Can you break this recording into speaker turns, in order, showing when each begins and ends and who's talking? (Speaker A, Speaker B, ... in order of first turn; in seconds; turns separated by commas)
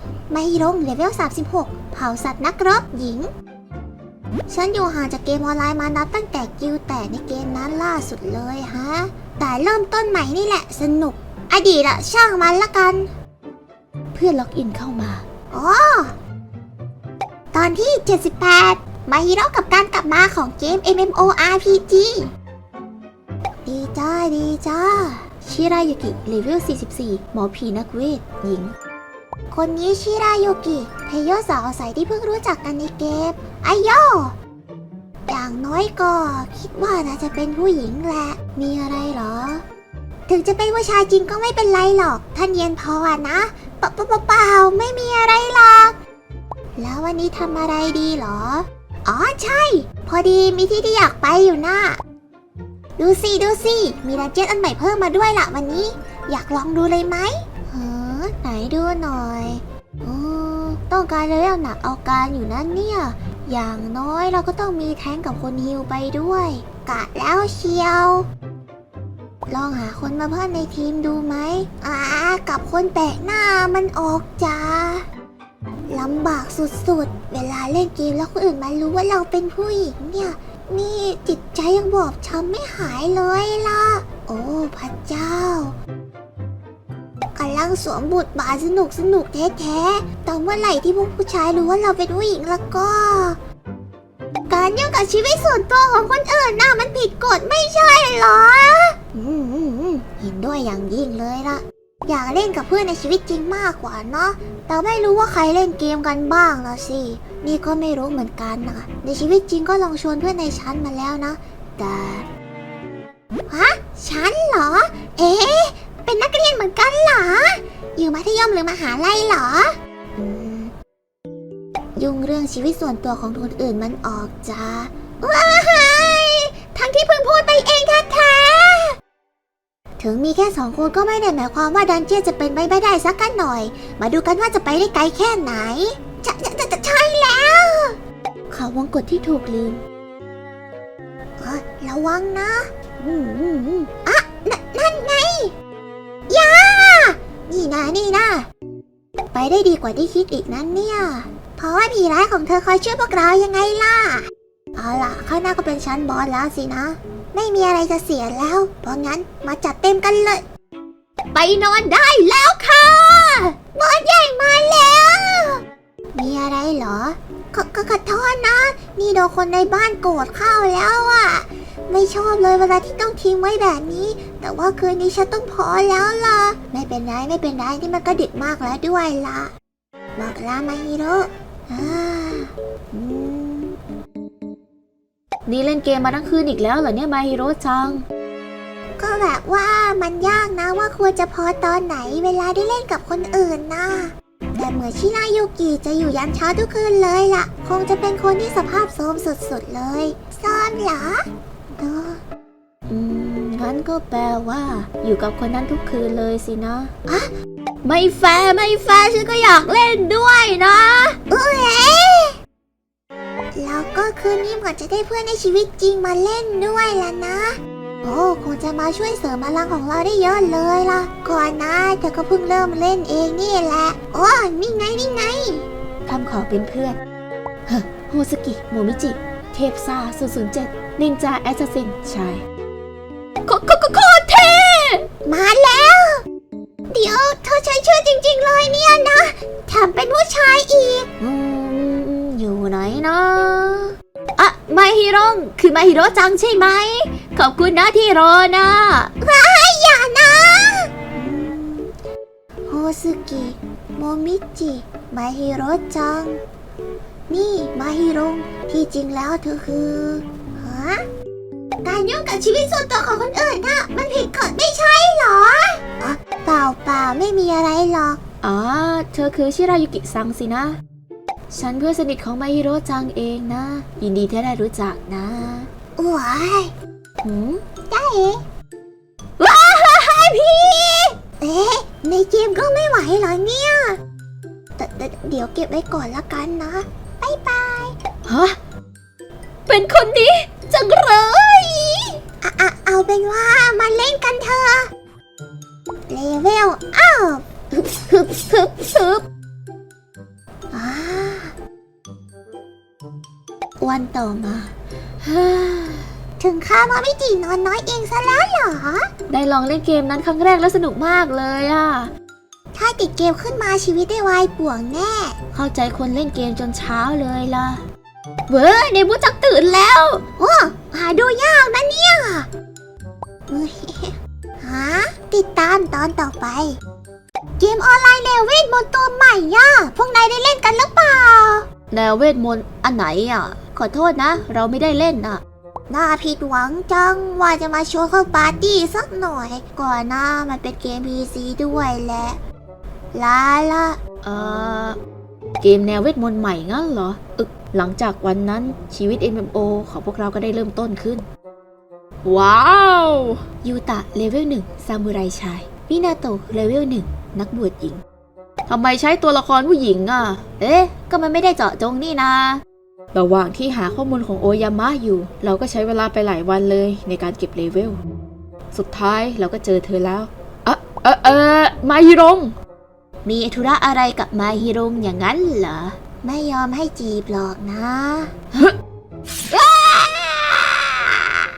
Speaker A: 0.3-3.3, Speaker A: 4.5-13.1, Speaker B: 14.1-15.2, Speaker A: 15.5-16.1, Speaker A: 17.5-22.3, Speaker A: 23.7-25.3, Speaker B: 25.4-28.7, Speaker A: 29.5-34.4, Speaker A: 35.3-39.6, Speaker A: 40.3-46.0, Speaker A: 46.8-52.0, Speaker A: 53.0-68.3, Speaker A: 69.5-75.1, Speaker A: 75.9-85.8, Speaker A: 87.4-93.4, Speaker A: 94.5-112.3, Speaker A: 113.5-120.7, Speaker A: 122.0-128.9, Speaker A: 130.0-138.0, Speaker B: 138.5-139.8, Speaker A: 141.4-145.5, Speaker A: 146.3-148.5, Speaker A: 149.3-154.2, Speaker A: 154.8-160.4, Speaker B: 161.3-163.6, Speaker A: 163.7-165.6, Speaker A: 166.1-179.5, Speaker A: 180.2-183.8, Speaker B: 185.5-188.0, Speaker A: 189.0-202.2, Speaker B: 202.9-206.9, Speaker B: 207.8-211.2, Speaker A: 211.3-212.3, Speaker A: 213.6-225.7, Speaker B: 226.1-227.0, Speaker B: 227.7-232.4, Speaker B: 233.4-235.1, Speaker A: 235.3-236.2, Speaker A: 236.9-241.1, Speaker B: 241.2-249.1, Speaker A: 249.2-251.9, Speaker A: 252.7-256.4, Speaker A: 257.3-261.0, Speaker A: 261.8-268.2, Speaker B: 268.4-270.8, Speaker B: 271.5-275.7, Speaker A: 276.0-276.7, Speaker B: 277.2-277.6, Speaker A: 277.9-278.4, Speaker B: 279.4-281.1, Speaker A: 281.4-284.0, Speaker A: 284.8-288.0, Speaker B: 288.2-288.6, Speaker B: 289.7-292.2, Speaker A: 292.4-294.9, Speaker A: 296.1-297.4, Speaker B: 297.7-299.2, Speaker A: 300.7-301.5, Speaker A: 303.8-304.7, Speaker B: 305.2-306.1, Speaker A: 306.4-309.1, Speaker B: 309.3-312.1, Speaker A: 312.7-315.4, Speaker B: 315.5-317.8, Speaker B: 318.5-320.2, Speaker A: 320.4-322.5, Speaker A: 323.5-326.8, Speaker A: 327.6-331.6, Speaker B: 331.9-335.4, Speaker A: 335.9-342.4, Speaker A: 343.1-344.0, Speaker B: 344.2-345.0, Speaker B: 345.6-351.3, Speaker B: 352.2-358.0, Speaker B: 358.7-362.6, Speaker B: 363.1-368.0, Speaker B: 368.7-372.5, Speaker B: 373.2-375.9, Speaker A: 376.2-378.3, Speaker A: 379.5-380.7